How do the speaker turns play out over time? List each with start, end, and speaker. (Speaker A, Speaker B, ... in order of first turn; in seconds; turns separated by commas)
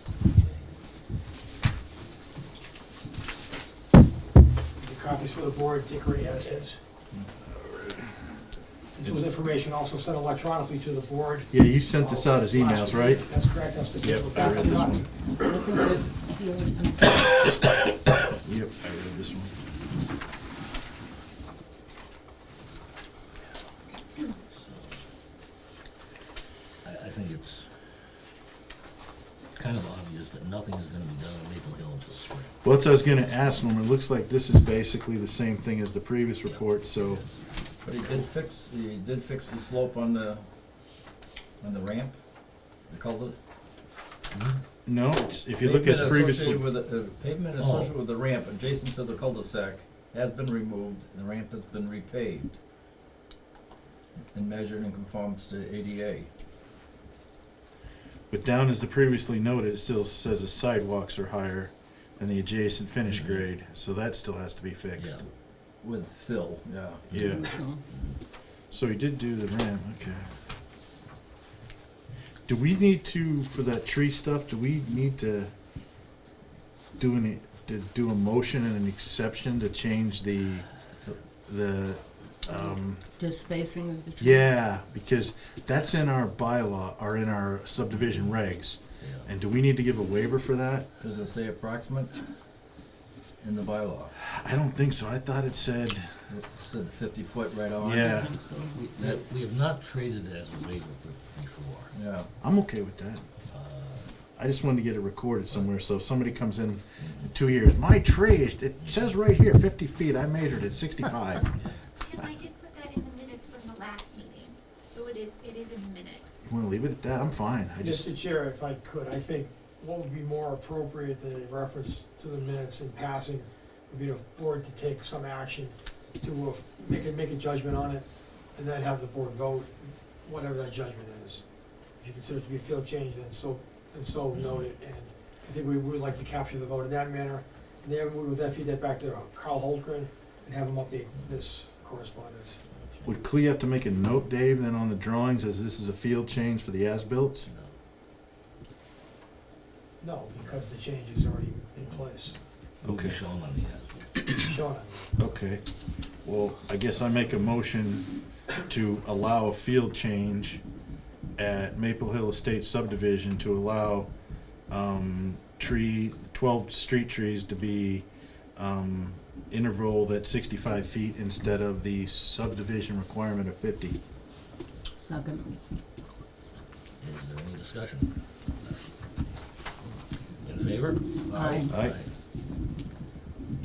Speaker A: 4.8-6.8, Speaker B: 7.7-8.1, Speaker A: 8.9-15.0, Speaker B: 11.5-13.3, Speaker B: 14.0-15.1, Speaker C: 14.4-17.4, Speaker B: 18.4-19.5, Speaker D: 24.5-25.0, Speaker D: 26.8-27.7, Speaker D: 29.5-32.6, Speaker B: 32.6-37.2, Speaker D: 36.5-37.2, Speaker E: 37.8-40.5, Speaker D: 38.0-38.3, Speaker E: 41.6-42.2, Speaker E: 42.9-43.4, Speaker D: 44.3-44.6, Speaker B: 44.8-46.7, Speaker E: 45.6-52.6, Speaker D: 47.6-47.9, Speaker E: 54.3-56.3, Speaker B: 58.3-65.2, Speaker D: 63.1-63.5, Speaker D: 65.0-65.2, Speaker E: 65.8-67.4, Speaker B: 67.1-67.6, Speaker D: 67.1-68.2, Speaker C: 67.4-67.8, Speaker B: 68.7-70.3, Speaker B: 72.5-75.5, Speaker B: 77.0-80.7, Speaker B: 81.5-83.0, Speaker C: 83.2-84.6, Speaker B: 84.2-90.9, Speaker D: 87.9-88.4, Speaker D: 89.0-89.3, Speaker E: 91.0-92.2, Speaker E: 93.4-94.1, Speaker B: 94.2-96.1, Speaker E: 96.3-98.1, Speaker B: 97.8-98.4, Speaker C: 98.0-98.8, Speaker D: 98.7-101.9, Speaker E: 99.0-99.2, Speaker E: 101.9-102.3, Speaker B: 102.4-103.2, Speaker D: 103.5-104.1, Speaker B: 104.4-111.5, Speaker D: 107.0-107.3, Speaker F: 112.0-116.4, Speaker B: 116.5-118.1, Speaker A: 117.8-131.5, Speaker A: 132.0-142.6, Speaker D: 134.3-134.6, Speaker B: 143.0-147.5, Speaker D: 147.5-147.7, Speaker A: 150.0-152.3, Speaker D: 152.8-154.1, Speaker B: 152.8-153.2, Speaker A: 154.2-155.1, Speaker B: 155.2-155.6, Speaker B: 156.2-160.6, Speaker B: 161.4-164.1, Speaker B: 164.7-174.0, Speaker C: 175.0-175.5, Speaker D: 177.0-178.1, Speaker D: 180.4-182.1, Speaker E: 181.3-181.6, Speaker C: 181.3-181.7, Speaker B: 181.7-181.9